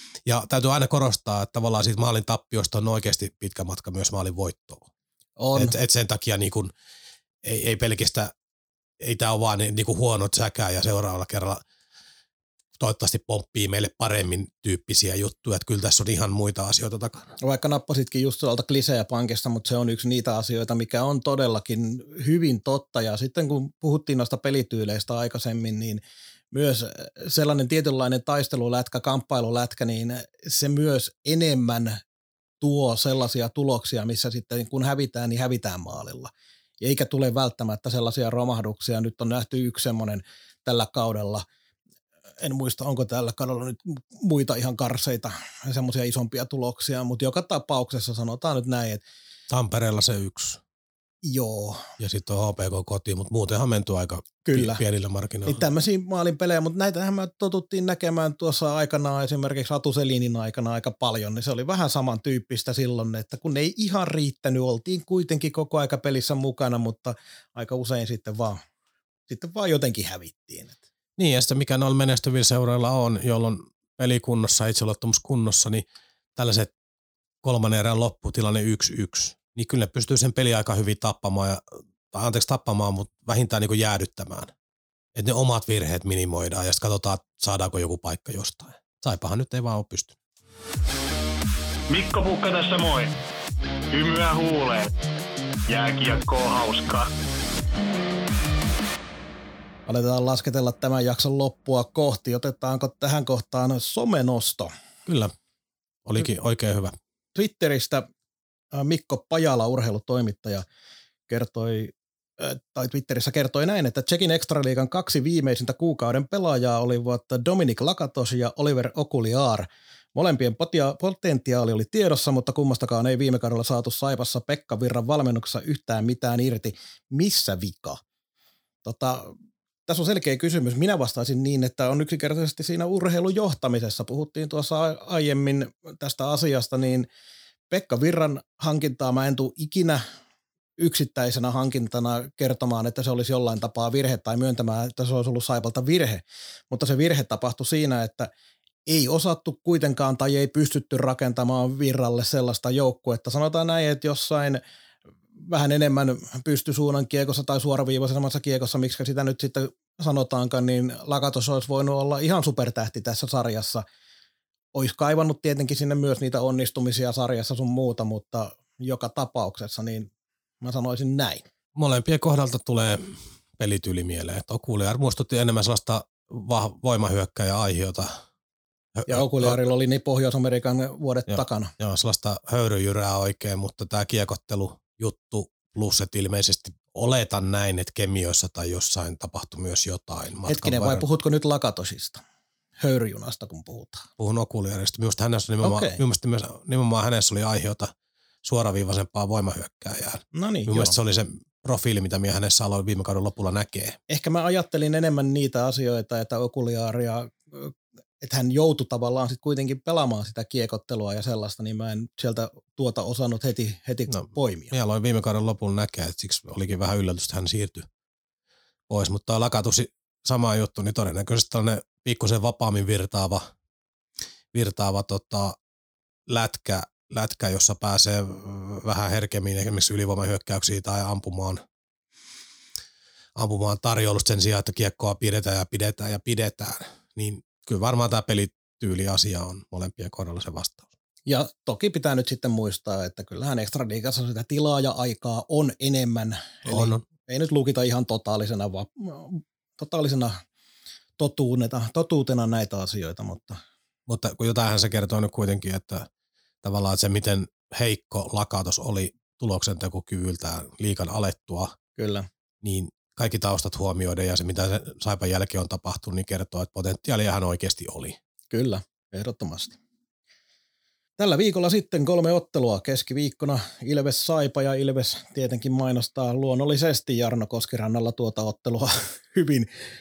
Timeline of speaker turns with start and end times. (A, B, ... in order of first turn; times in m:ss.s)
0:00.2-0:04.8 A
0:05.4-0:05.7 B
0:05.5-0:06.7 A
0:07.4-0:08.3 A
0:09.0-0:11.6 A
0:12.8-0:17.4 A
0:17.4-0:26.0 B
0:26.5-0:32.0 B
0:32.6-0:41.4 B
0:42.4-0:49.0 B
0:49.5-0:50.6 A
0:51.2-0:51.9 B
0:52.0-0:55.6 A
0:54.4-0:54.8 B
0:55.4-1:08.6 B
1:09.3-1:10.8 B
1:11.2-1:15.8 A
1:16.4-1:16.7 A
1:17.4-1:24.5 A
1:25.1-1:30.2 A
1:31.9-1:33.1 C
1:33.9-1:34.9 C
1:35.7-1:37.1 C
1:39.9-1:44.7 B
1:45.0-1:45.3 A
1:46.0-1:47.0 A
1:47.3-1:48.0 B
1:48.7-1:50.6 B
1:51.3-2:08.0 B
2:08.8-2:09.3 B
2:09.8-2:17.1 B
2:17.7-2:20.0 B
2:20.8-2:28.3 B
2:28.9-2:34.6 B
2:35.5-2:43.8 B
2:44.7-2:50.1 B
2:50.6-2:51.4 B
2:51.7-2:58.2 A
2:59.0-2:59.6 A
2:59.1-3:01.7 B
3:01.3-3:11.0 A
3:10.5-3:12.2 B
3:12.8-3:14.1 B
3:14.2-3:17.9 A
3:15.6-3:16.0 B
3:18.4-3:24.0 A
3:20.3-3:20.9 B
3:24.1-3:34.7 B
3:34.1-3:37.9 A
3:38.9-3:43.5 A
3:44.5-3:45.6 A
3:46.3-3:51.6 A
3:53.4-4:00.9 A
4:01.2-4:10.4 B
4:06.6-4:07.0 A
4:11.2-4:13.6 B
4:14.1-4:16.1 A
4:16.6-4:21.7 A
4:22.0-4:22.3 B
4:22.6-4:28.2 A
4:28.5-4:29.8 B
4:31.2-4:39.7 B